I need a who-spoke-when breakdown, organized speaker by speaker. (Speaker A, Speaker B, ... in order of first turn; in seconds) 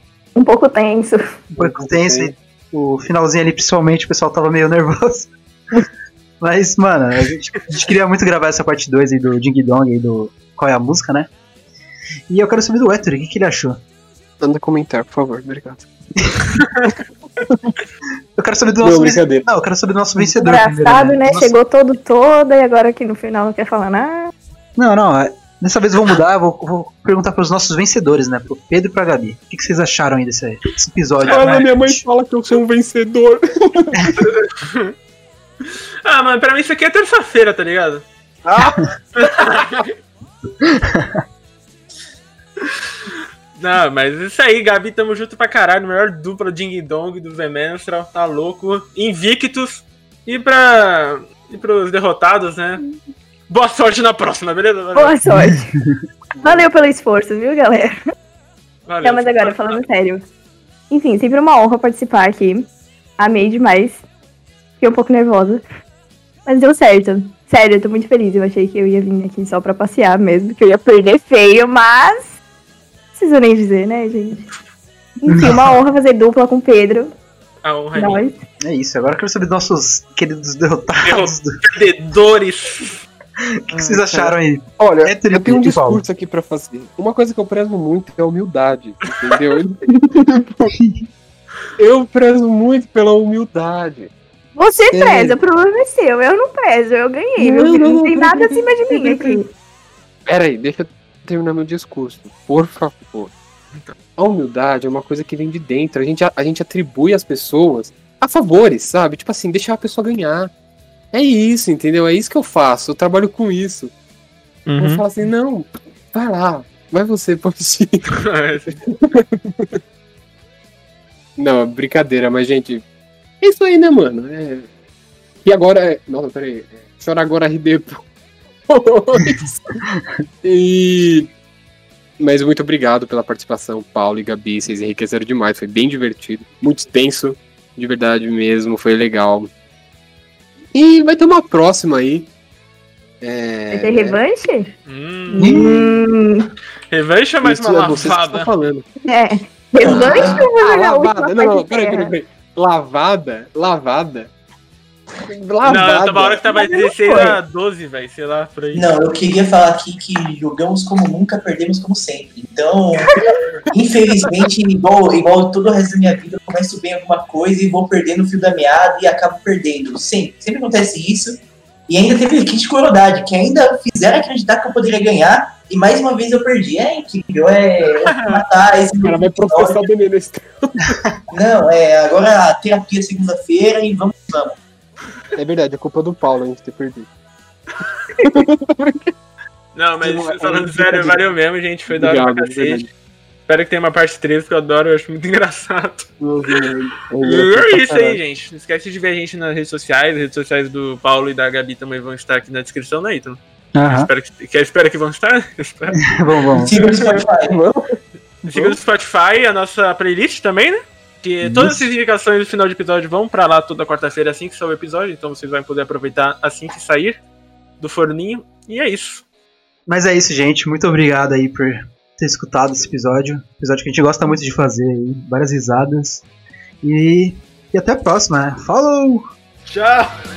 Speaker A: 0.4-1.4, 20.4-24.3, 55.0-55.7, 56.4-58.0, 59.0-60.2, 60.9-62.7, 63.2-64.0, 64.8-65.6, 66.5-72.4, 73.2-74.5, 75.2-77.1, 78.0-78.4, 94.6-99.5, 143.7-144.7, 145.3-146.5, 149.1-152.1, 156.5-157.4
Speaker B: 1.5-5.3, 6.4-11.3, 12.3-13.8, 18.4-21.6, 24.8-32.0, 40.6-41.2, 55.3-56.0, 75.3-75.8, 78.6-81.6, 83.4-86.0, 90.8-91.0, 145.4-146.0, 203.8-204.1, 206.0-206.7, 211.4-211.9, 219.9-226.2, 226.8-229.3
Speaker C: 1.6-2.3, 14.4-15.9, 17.5-17.8, 18.8-19.5, 31.3-34.3, 38.5-38.8, 39.3-39.8, 56.4-56.7, 83.7-90.7, 91.8-94.1, 94.9-95.4, 97.4-99.4, 100.3-103.3, 104.2-110.5, 111.1-113.9, 114.8-118.1, 118.7-119.8, 121.4-122.8, 123.4-124.7, 125.5-128.0, 128.7-129.8, 130.4-131.3, 132.2-139.5, 140.7-142.3, 143.2-144.2, 147.4-148.9, 149.9-154.3, 155.2-156.4, 179.0-181.0, 185.3-187.1, 188.2-189.1, 190.0-191.2, 191.9-192.9, 196.2-198.2, 206.8-208.0, 208.5-208.8
Speaker D: 31.2-31.7, 34.6-34.9, 35.6-38.0, 39.2-39.9, 43.6-52.8, 53.5-55.2, 58.9-59.8, 77.6-78.2, 81.0-83.1, 114.7-115.0, 118.1-118.7, 144.9-145.7, 146.9-148.5, 155.6-158.9, 178.0-178.4, 189.8-192.8, 193.5-196.5, 197.2-206.1, 206.8-207.1, 208.4-217.2, 217.8-219.2, 229.7-230.2
Speaker E: 149.8-150.5, 158.7-179.9, 181.3-184.6, 206.6-207.6